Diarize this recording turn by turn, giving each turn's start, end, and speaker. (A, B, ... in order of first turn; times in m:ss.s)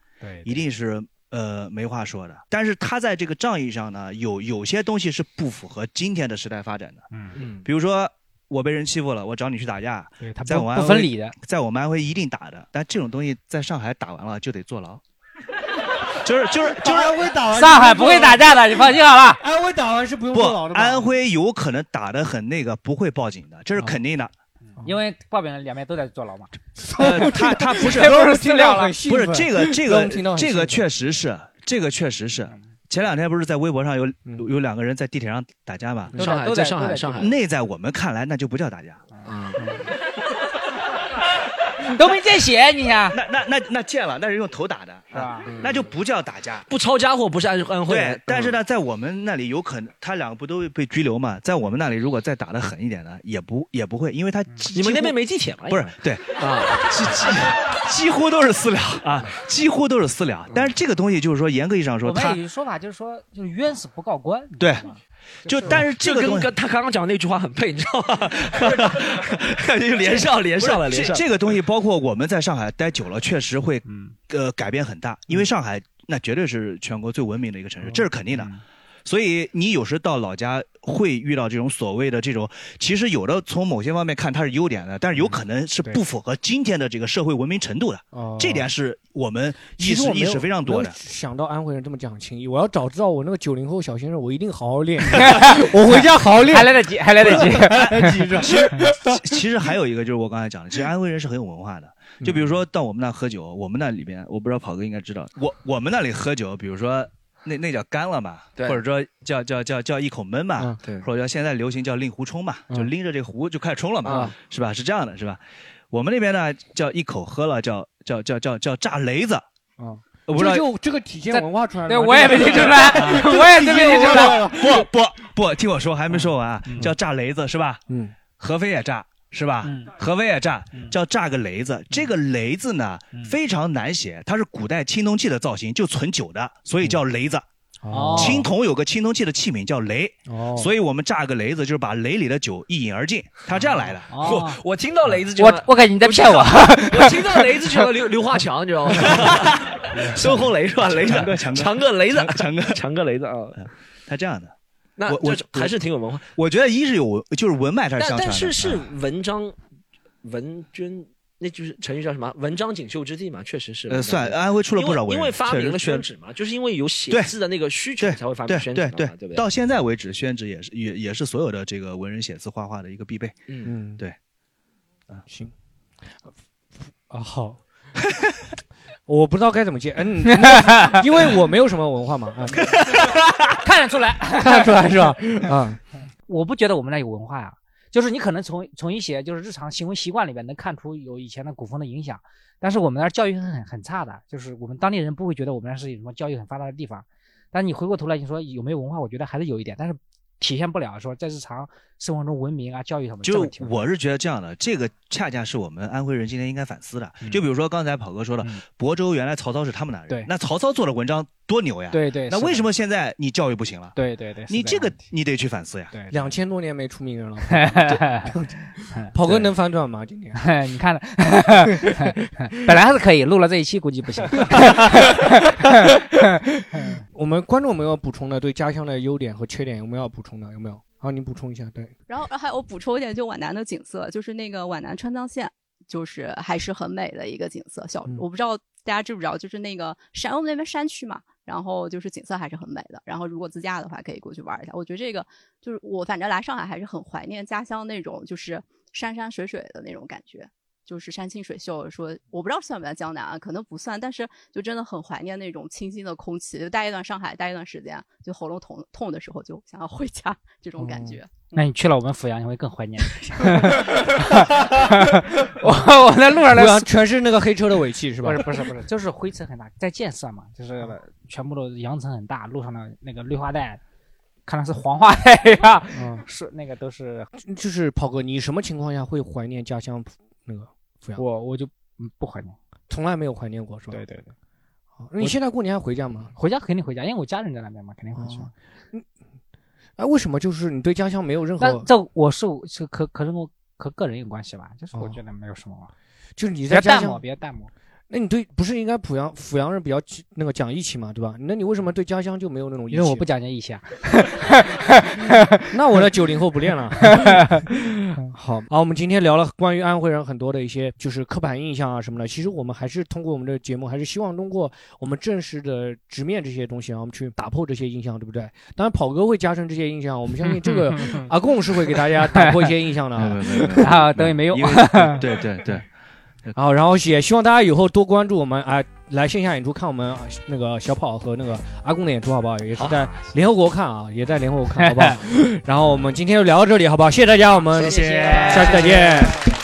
0:00.2-0:00.6 A
0:00.4-0:07.0 B
0:07.1-0:07.4 A
0:07.6-0:15.0 B
0:10.2-0:11.3 A
0:16.2-0:17.2 B
0:16.7-0:21.1 C
0:17.5-0:19.4 A
0:20.3-0:24.3 B
0:24.7-0:26.6 A
0:26.8-0:30.8 C
0:26.9-0:36.1 B
0:36.1-0:37.2 A
0:36.1-0:37.4 D
0:37.2-0:39.0 B
0:39.1-0:39.9 A
0:39.2-0:39.6 D
0:41.8-0:43.2 A
0:43.1-0:46.6 B
0:45.1-0:45.5 A
0:45.5-0:45.7 D
0:46.7-0:48.6 D
0:47.9-0:55.2 B
0:54.7-0:56.9 D
0:55.7-1:02.4 B
1:02.0-1:05.7 A
1:04.6-1:04.8 B
1:05.4-1:06.5 B
1:05.6-1:11.6 D
1:08.6-1:09.0 B
1:10.6-1:18.5 B
1:13.8-1:14.1 A
1:18.4-1:18.6 A
1:19.0-1:30.9 B
1:28.1-1:28.7 C
1:29.8-1:39.4 C
1:35.1-1:38.3 A
1:37.2-1:59.4 B
1:42.2-1:42.6 C
1:54.0-1:54.3 D
1:54.1-1:54.3 C
1:59.8-2:04.9 C
2:00.3-2:00.6 B
2:01.3-2:04.5 A
2:03.0-2:07.8 B
2:06.1-2:06.9 A
2:07.9-2:08.2 C
2:08.4-2:17.4 B
2:09.6-2:09.9 A
2:17.8-2:18.5 C
2:17.9-2:18.4 A
2:18.1-2:24.1 B
2:20.3-2:20.7 C
2:24.1-2:24.6 A
2:24.2-2:33.6 D
2:25.4-2:27.5 A
2:30.2-2:32.8 B
2:33.6-2:34.5 B
2:35.0-2:36.3 D
2:35.1-2:35.8 B
2:36.3-2:38.9 B
2:38.0-2:39.6 D
2:40.2-2:49.4 D
2:43.9-2:46.0 B
2:48.0-2:53.4 B
2:53.6-2:54.0 C
2:55.2-2:55.5 C
2:56.8-2:57.6 C
2:59.1-3:02.7 C
3:00.3-3:01.0 A
3:02.9-3:03.3 D
3:03.6-3:05.2 A
3:04.4-3:05.8 C
3:06.3-3:23.7 A
3:23.2-3:34.0 B
3:31.9-3:32.7 A
3:33.9-3:34.9 A
3:34.5-3:35.9 B
3:35.9-3:36.2 A
3:36.1-3:38.5 C
3:37.5-3:38.3 A
3:39.1-3:40.4 C
3:40.4-3:46.0 A
3:44.4-3:51.9 C
3:52.1-4:21.5 E
4:20.8-4:21.2 C
4:21.5-4:26.9 A
4:23.6-4:24.9 C
4:25.6-4:25.9 C
4:26.5-4:28.5 C
4:28.2-4:33.8 A
4:34.4-4:37.3 A
4:35.9-4:36.2 C
4:37.4-4:41.2 C
4:41.2-4:42.6 A
4:42.9-4:44.0 C
4:43.9-4:44.3 A
4:45.0-4:46.3 C
4:46.4-4:48.5 A
4:48.2-4:49.1 C
4:50.0-4:51.9 C
4:51.6-4:55.9 A
4:54.9-4:55.2 C
4:56.4-4:57.2 C
4:56.7-4:57.7 A
4:58.1-5:03.2 C
5:02.9-5:05.6 A
5:05.7-5:23.9 C
5:07.0-5:07.6 A
5:20.4-5:21.3 A
5:22.3-5:22.7 A
5:23.2-5:25.9 B
5:23.8-5:25.2 A
5:26.6-5:39.5 C
5:34.8-5:35.2 A
5:37.7-5:39.5 A
5:38.3-5:38.6 B